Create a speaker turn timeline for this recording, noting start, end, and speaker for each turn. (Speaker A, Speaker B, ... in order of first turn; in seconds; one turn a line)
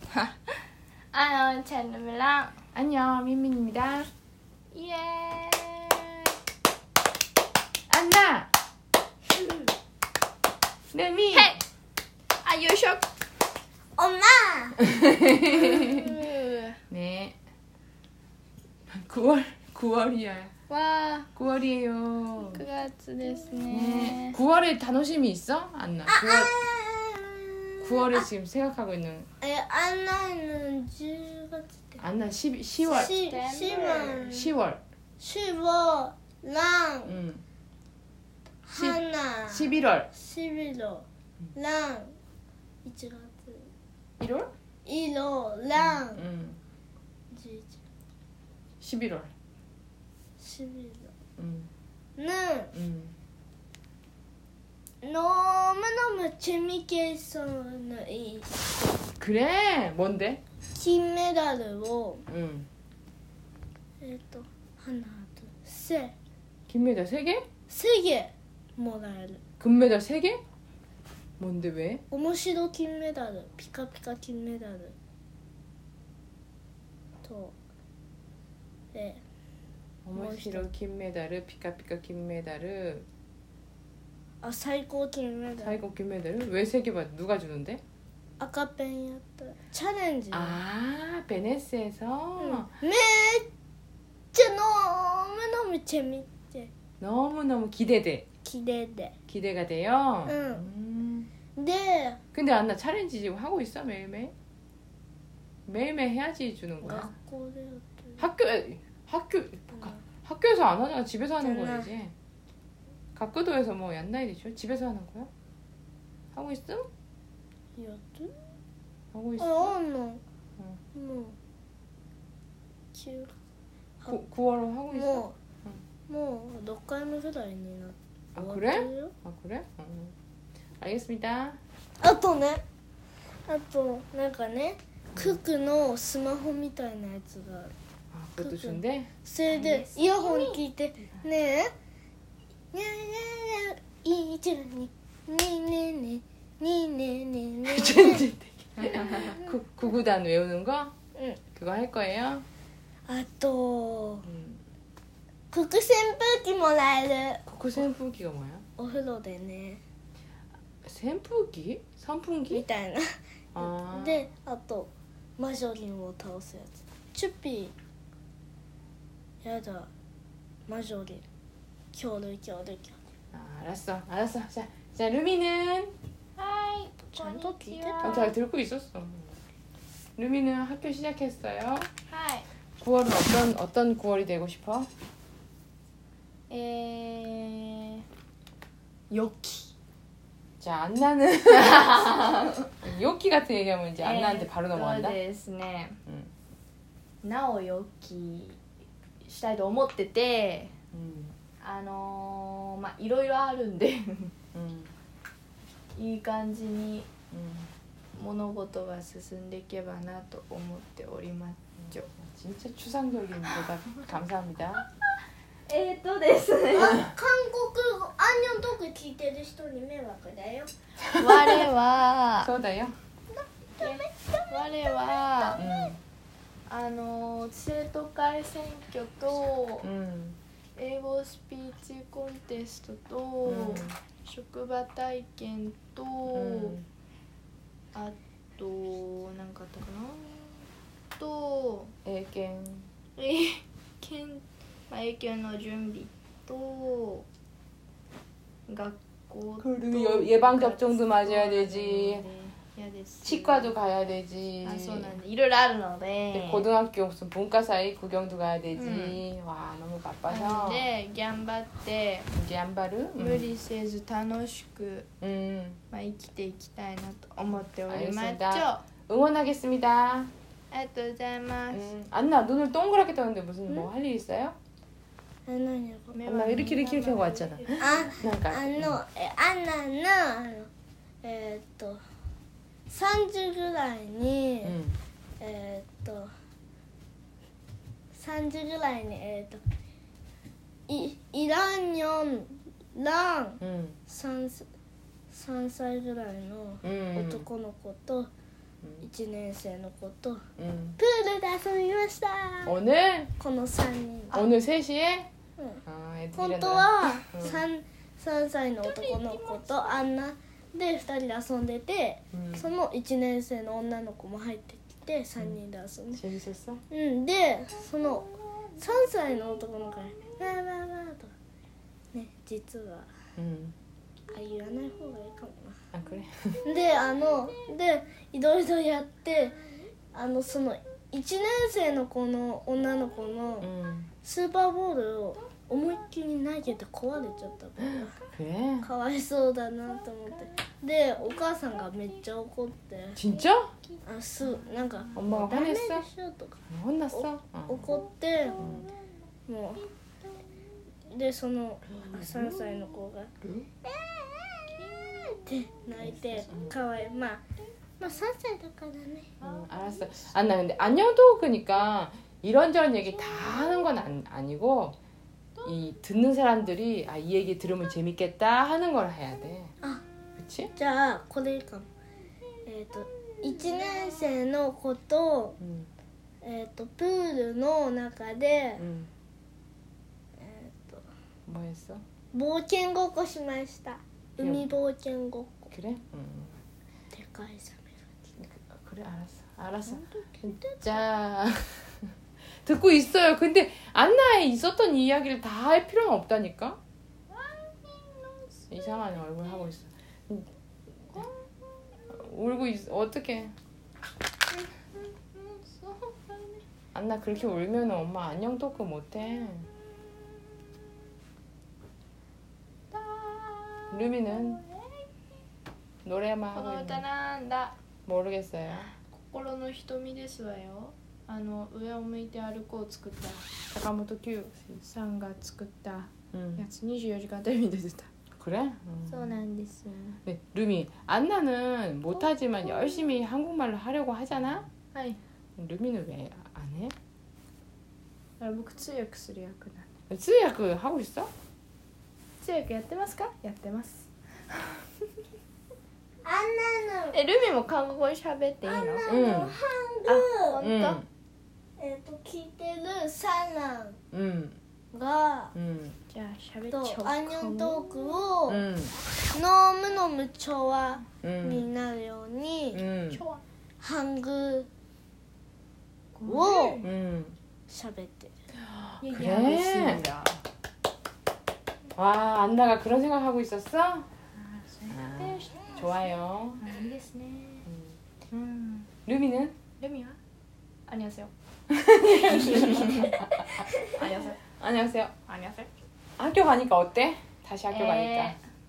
Speaker A: 0.1-0.5
Speaker A: 1.1-2.6
Speaker B: 2.7-4.1
Speaker A: 4.7-6.3
Speaker B: 7.9-8.5
Speaker B: 10.9-11.5
Speaker A: 11.3-11.6
Speaker A: 12.4-13.1
Speaker C: 13.9-14.8
Speaker B: 14.8-16.1
Speaker A: 15.7-16.8
Speaker B: 16.9-17.4
Speaker B: 18.9-20.5
Speaker A: 20.7-21.3
Speaker B: 21.4-22.6
Speaker A: 22.5-24.4
Speaker C: 23.2-23.8
Speaker B: 23.7-26.5
Speaker C: 26.1-28.3
Speaker B: 27.8-29.3
Speaker C: 29.4-32.0
Speaker B: 32.0-33.1
Speaker C: 32.8-34.5
Speaker A: 32.9-34.2
Speaker B: 34.2-34.8
Speaker C: 35.2-37.1
Speaker B: 37.0-37.4
Speaker C: 38.6-42.1
Speaker B: 38.8-40.1
Speaker C: 42.8-43.7
Speaker B: 44.2-44.5
Speaker C: 44.8-46.2
Speaker B: 45.8-46.6
Speaker C: 47.3-47.8
Speaker B: 48.8-49.3
Speaker C: 50.4-51.1
Speaker B: 51.4-51.7
Speaker C: 52.2-52.7
Speaker B: 52.7-53.1
Speaker C: 55.0-58.7
Speaker B: 59.2-60.4
Speaker C: 60.7-62.2
Speaker B: 62.3-62.7
Speaker C: 64.0-66.1
Speaker B: 66.7-67.5
Speaker C: 67.7-69.4
Speaker B: 69.6-70.4
Speaker B: 71.4-72.0
Speaker C: 72.1-75.0
Speaker C: 77.2-77.5
Speaker C: 78.9-79.2
Speaker B: 80.0-83.1
Speaker C: 80.1-80.7
Speaker C: 84.4-85.8
Speaker B: 85.6-87.8
Speaker C: 88.4-90.6
Speaker B: 90.3-92.7
Speaker C: 92.4-93.5
Speaker C: 94.3-96.7
Speaker B: 97.0-98.3
Speaker C: 98.4-99.1
Speaker B: 99.3-101.3
Speaker C: 100.2-100.6
Speaker C: 101.5-102.2
Speaker B: 102.3-104.3
Speaker B: 105.7-107.1
Speaker C: 106.8-108.2
Speaker B: 108.2-112.1
Speaker C: 111.4-111.9
Speaker B: 113.1-115.3
Speaker B: 116.3-116.9
Speaker C: 117.8-118.3
Speaker B: 119.1-119.8
Speaker C: 119.4-120.2
Speaker C: 120.9-121.3
Speaker C: 122.9-123.3
Speaker B: 124.1-125.8
Speaker C: 124.9-125.3
Speaker C: 126.1-129.1
Speaker B: 128.3-130.1
Speaker B: 130.8-131.6
Speaker C: 132.0-132.6
Speaker C: 133.5-137.7
Speaker B: 135.1-135.4
Speaker B: 138.1-139.1
Speaker C: 138.4-141.7
Speaker A: 139.5-140.6
Speaker C: 142.7-148.2
Speaker B: 147.7-150.9
Speaker C: 149.2-149.5
Speaker C: 151.1-151.4
Speaker B: 151.5-152.4
Speaker C: 153.1-154.3
Speaker B: 154.2-154.6
Speaker C: 155.5-157.4
Speaker B: 157.5-158.7
Speaker C: 158.8-159.8
Speaker B: 160.8-162.7
Speaker C: 162.5-167.7
Speaker B: 163.5-164.2
Speaker C: 169.4-169.9
Speaker C: 170.7-171.2
Speaker C: 171.9-173.0
Speaker B: 173.3-175.9
Speaker A: 176.4-178.3
Speaker C: 177.1-178.3
Speaker B: 178.0-179.4
Speaker B: 180.2-181.9
Speaker A: 182.1-182.5
Speaker B: 182.8-184.9
Speaker A: 186.5-188.0
Speaker A: 189.1-189.7
Speaker B: 190.6-195.2
Speaker A: 191.6-192.6
Speaker A: 194.0-196.0
Speaker B: 196.1-196.3
Speaker A: 197.2-198.6
Speaker A: 199.2-200.7
Speaker B: 200.9-201.3
Speaker A: 201.6-204.3
Speaker B: 204.5-204.9
Speaker A: 205.9-207.1
Speaker B: 207.3-207.7
Speaker A: 208.2-212.1
Speaker B: 211.8-214.9
Speaker A: 215.7-217.1
Speaker C: 216.7-220.7
Speaker B: 221.1-221.7
Speaker A: 221.2-222.5
Speaker B: 222.4-222.9
Speaker C: 223.3-225.8
Speaker A: 223.8-225.6
Speaker B: 225.6-226.0
Speaker A: 226.7-229.9
Speaker B: 229.8-230.4
Speaker A: 230.8-236.8
Speaker B: 233.4-233.9
Speaker B: 236.3-236.8
Speaker A: 237.9-240.6
Speaker A: 241.2-241.9
Speaker B: 242.0-242.9
Speaker A: 243.2-247.2
Speaker A: 248.7-253.8
Speaker B: 249.6-252.2
Speaker B: 253.2-255.2
Speaker A: 254.6-256.7
Speaker B: 256.3-260.9
Speaker A: 258.7-259.2
Speaker A: 260.3-262.3
Speaker B: 262.3-263.5
Speaker A: 263.1-265.1
Speaker B: 265.2-265.8
Speaker A: 265.9-268.8
Speaker B: 267.9-270.3
Speaker A: 270.7-271.8
Speaker B: 271.7-274.6
Speaker C: 275.4-276.2
Speaker A: 276.1-278.1
Speaker B: 276.2-279.0
Speaker C: 277.8-280.7
Speaker C: 281.2-282.0
Speaker C: 282.9-284.8
Speaker B: 284.6-285.0
Speaker C: 285.4-286.3
Speaker C: 288.1-289.6
Speaker C: 290.9-294.7
Speaker B: 293.6-294.0
Speaker C: 295.3-298.3
Speaker B: 296.8-297.5
Speaker C: 299.0-300.4
Speaker B: 300.6-301.0
Speaker C: 301.0-302.8
Speaker B: 302.6-303.3
Speaker C: 303.4-304.4
Speaker B: 304.3-305.3
Speaker C: 305.6-305.8
Speaker B: 305.9-307.6
Speaker C: 306.3-316.2
Speaker A: 308.8-310.0
Speaker B: 312.3-312.7
Speaker B: 316.1-316.8
Speaker C: 316.9-321.3
Speaker C: 322.1-323.1
Speaker B: 323.4-323.7
Speaker C: 324.3-325.8
Speaker B: 325.9-326.6
Speaker C: 326.6-329.6
Speaker C: 330.1-333.7
Speaker B: 333.6-334.1
Speaker C: 334.2-338.2
Speaker B: 338.3-338.9
Speaker C: 338.8-343.2
Speaker B: 343.2-343.7
Speaker A: 343.9-344.8
Speaker C: 344.0-346.6
Speaker B: 345.1-346.1
Speaker B: 346.7-347.9
Speaker C: 347.1-348.7
Speaker A: 347.9-348.9
Speaker B: 348.6-348.9
Speaker C: 349.5-349.9
Speaker C: 351.1-353.3
Speaker B: 351.9-352.8
Speaker B: 353.4-353.7
Speaker C: 353.8-357.4
Speaker A: 354.7-355.8
Speaker B: 356.0-356.7
Speaker C: 358.0-359.3
Speaker A: 359.4-360.4
Speaker B: 359.4-365.0
Speaker A: 363.2-363.9
Speaker B: 365.6-369.7
Speaker B: 370.4-370.7
Speaker C: 370.8-371.9
Speaker C: 372.6-375.6
Speaker A: 373.6-374.1
Speaker B: 375.6-375.9
Speaker C: 376.4-378.8
Speaker B: 378.8-379.1
Speaker C: 380.4-381.0
Speaker B: 381.5-382.0
Speaker C: 382.3-385.7
Speaker B: 384.4-384.7
Speaker B: 385.7-386.6
Speaker C: 387.1-388.0
Speaker B: 388.4-391.9
Speaker C: 389.9-390.8
Speaker B: 392.6-396.8
Speaker A: 397.3-399.3
Speaker B: 398.7-400.5
Speaker A: 401.1-402.0
Speaker B: 402.1-403.5
Speaker A: 404.5-406.6
Speaker B: 406.9-409.7
Speaker A: 412.9-414.9
Speaker B: 413.9-414.6
Speaker B: 416.0-417.0
Speaker A: 416.5-417.7
Speaker B: 418.1-418.9
Speaker A: 419.1-423.5
Speaker B: 423.7-424.8
Speaker A: 424.8-428.1
Speaker B: 426.3-426.6
Speaker B: 428.4-429.4
Speaker A: 429.1-430.2
Speaker B: 430.2-434.7
Speaker A: 434.9-435.2
Speaker B: 435.6-436.9
Speaker A: 438.4-439.9
Speaker B: 440.1-441.3
Speaker A: 442.4-444.8
Speaker C: 446.2-447.2
Speaker A: 447.1-449.1
Speaker C: 448.6-450.6
Speaker B: 449.1-449.6
Speaker A: 450.1-451.0
Speaker B: 450.6-451.1
Speaker C: 451.8-454.0
Speaker B: 454.1-454.6
Speaker C: 454.9-455.5
Speaker B: 455.5-456.0
Speaker A: 456.1-458.2
Speaker C: 456.7-458.6
Speaker B: 458.5-458.9
Speaker C: 459.3-462.8
Speaker B: 461.2-461.7
Speaker B: 462.7-463.2
Speaker A: 463.1-463.4
Speaker C: 463.8-464.7
Speaker A: 466.1-466.9
Speaker C: 466.2-466.8
Speaker B: 466.8-467.4
Speaker C: 467.7-468.3
Speaker B: 468.8-470.0
Speaker A: 469.0-470.4
Speaker B: 471.9-474.1
Speaker A: 474.4-477.7
Speaker B: 474.9-476.6
Speaker B: 477.6-478.0
Speaker A: 478.3-478.9
Speaker B: 479.1-479.6
Speaker A: 479.8-480.2
Speaker A: 480.9-481.3
Speaker B: 481.7-483.5
Speaker A: 482.1-483.1
Speaker C: 483.5-483.9
Speaker A: 483.8-484.4
Speaker B: 484.6-485.1
Speaker A: 485.2-485.7
Speaker B: 486.2-488.4
Speaker A: 487.7-488.4